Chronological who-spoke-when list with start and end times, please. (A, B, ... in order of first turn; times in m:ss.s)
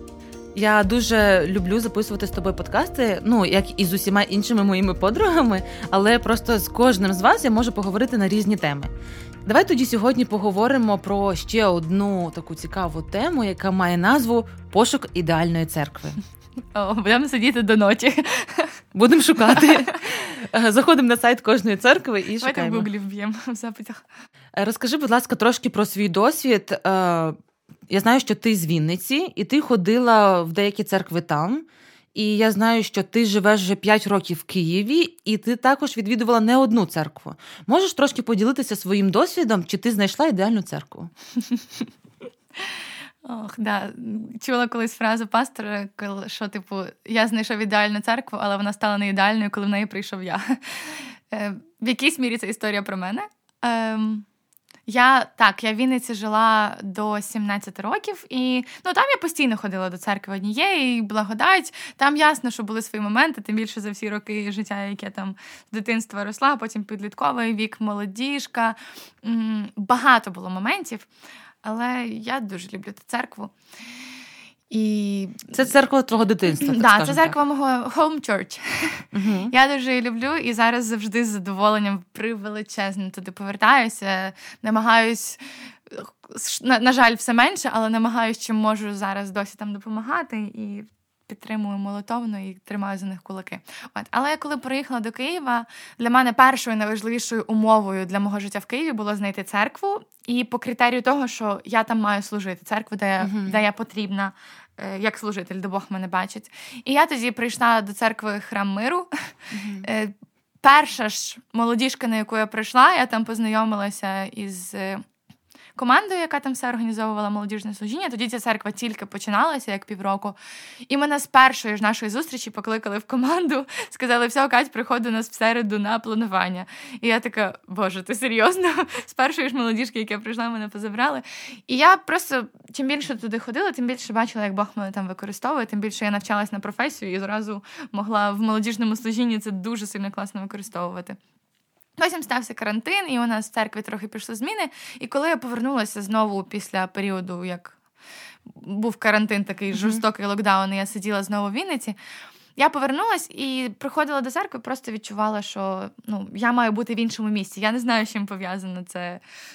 0:00.6-0:08.9 A
0:09.4-0:16.2 A
0:16.7-0:18.8 B
0:18.9-0:22.9 A
0:19.5-0:19.9 B
0:22.4-0:24.0 B
0:24.6-0:27.4 A
0:27.9-0:41.1 A
0:42.6-0:54.3 B
0:54.9-1:11.1 B
1:11.6-1:13.5 B
1:14.7-1:15.7 B
1:15.5-1:17.4 A
1:16.5-1:55.0 B
1:19.1-1:19.5 A
1:43.2-1:43.6 A
1:49.5-1:49.9 A
1:55.8-2:00.4 B
2:00.9-2:21.2 B
2:22.0-2:27.8 B
2:28.5-2:32.0 B
2:29.7-2:30.0 A
2:32.6-2:39.2 B